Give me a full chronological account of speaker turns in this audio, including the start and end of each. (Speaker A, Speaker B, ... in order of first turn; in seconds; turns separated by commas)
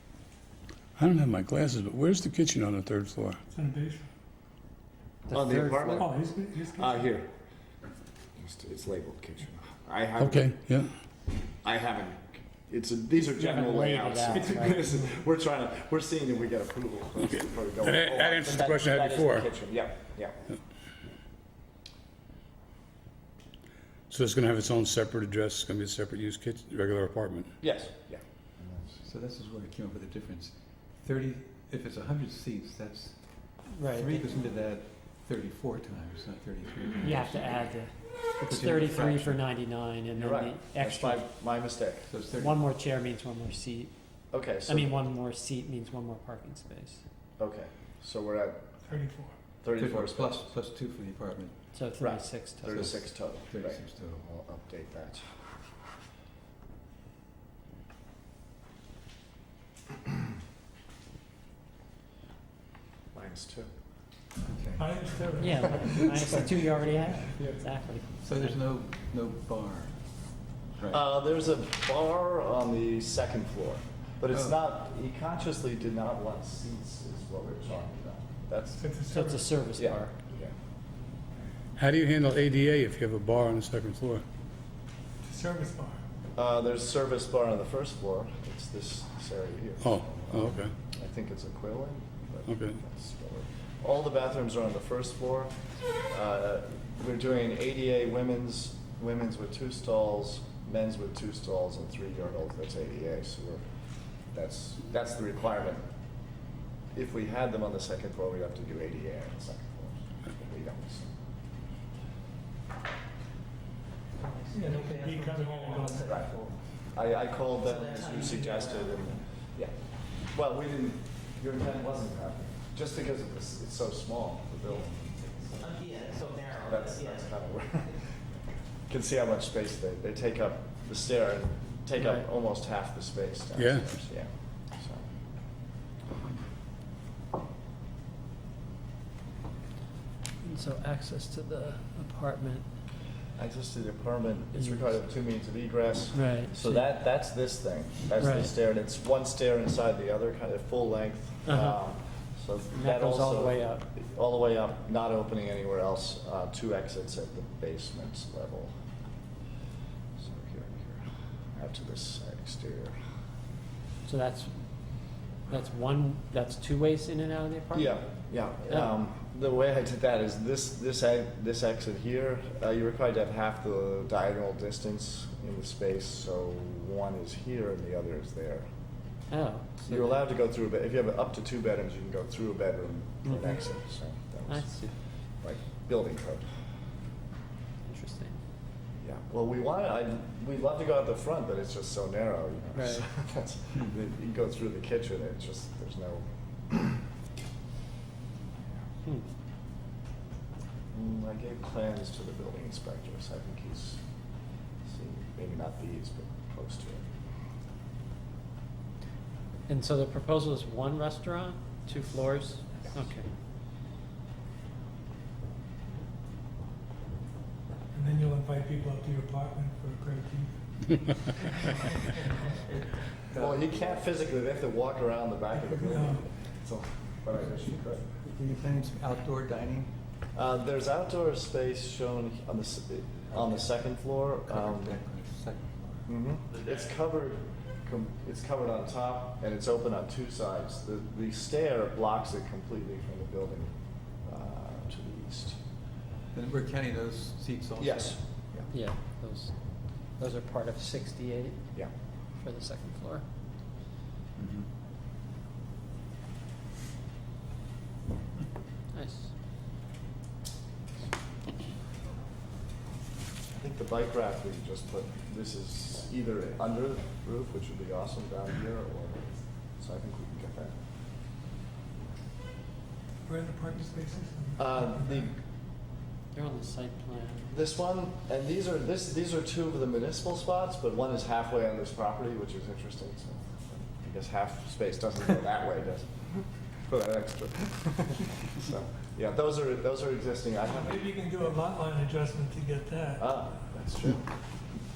Speaker A: 1.0-3.4, Speaker B: 3.5-4.1, Speaker C: 5.3-6.1, Speaker D: 5.3-7.3, Speaker B: 6.0-7.1, Speaker D: 8.4-10.5, Speaker A: 10.2-10.9, Speaker D: 11.6-20.4, Speaker C: 13.3-15.1, Speaker A: 17.2-19.5, Speaker A: 24.1-27.5, Speaker D: 27.6-29.0, Speaker E: 29.0-39.4, Speaker C: 33.7-34.1, Speaker C: 37.0-41.3, Speaker D: 40.2-42.1, Speaker E: 42.1-42.6, Speaker C: 42.3-47.0, Speaker D: 44.3-45.0, Speaker D: 47.4-48.7, Speaker B: 48.9-49.4, Speaker D: 49.6-50.5, Speaker E: 49.8-51.6, Speaker C: 51.7-52.7, Speaker D: 52.0-55.2, Speaker E: 52.7-54.2, Speaker D: 63.1-63.7, Speaker E: 64.5-65.0, Speaker B: 64.8-65.9, Speaker C: 65.4-68.6, Speaker E: 68.2-70.2, Speaker E: 70.8-71.0, Speaker D: 70.9-78.8, Speaker E: 74.3-74.6, Speaker B: 78.8-79.4, Speaker C: 79.1-80.1, Speaker D: 79.8-80.5, Speaker A: 81.8-84.2, Speaker B: 85.2-86.0, Speaker D: 86.4-95.5, Speaker A: 89.8-90.7, Speaker A: 92.5-92.8, Speaker D: 96.1-103.7, Speaker D: 104.3-105.8, Speaker D: 106.9-111.1, Speaker F: 114.2-116.6, Speaker B: 114.5-116.1, Speaker D: 116.0-119.8, Speaker F: 117.6-119.2, Speaker D: 120.3-125.6, Speaker F: 125.6-127.3, Speaker D: 126.5-135.1, Speaker C: 132.0-132.2, Speaker A: 133.6-134.0, Speaker C: 140.4-142.7, Speaker D: 143.4-158.7, Speaker C: 144.6-144.9, Speaker C: 146.1-146.9, Speaker C: 148.2-148.5, Speaker C: 151.4-151.8, Speaker C: 152.7-153.8, Speaker D: 160.2-163.0, Speaker C: 164.1-164.5, Speaker C: 165.5-168.9, Speaker D: 167.7-178.7, Speaker C: 179.3-180.2, Speaker D: 179.9-184.8, Speaker C: 183.2-183.6, Speaker C: 184.5-184.9, Speaker D: 185.4-186.5, Speaker C: 187.9-188.4, Speaker D: 189.0-197.1, Speaker C: 192.8-193.0, Speaker D: 200.9-204.0, Speaker D: 204.8-207.1, Speaker C: 209.7-213.3, Speaker B: 217.9-220.5, Speaker E: 223.3-223.9, Speaker D: 223.3-228.1, Speaker B: 225.5-226.3, Speaker E: 228.2-229.9, Speaker D: 230.3-235.0, Speaker E: 233.3-233.7, Speaker E: 234.5-236.1, Speaker D: 236.1-243.7, Speaker D: 244.2-245.6, Speaker E: 246.3-248.2, Speaker D: 247.8-248.7, Speaker C: 248.7-253.2, Speaker E: 254.4-254.7, Speaker C: 258.9-259.3, Speaker D: 263.5-270.7, Speaker B: 273.2-275.4, Speaker D: 274.6-275.4, Speaker C: 276.3-277.5, Speaker D: 277.5-286.3, Speaker D: 286.9-291.6, Speaker B: 290.7-293.3, Speaker D: 293.2-294.3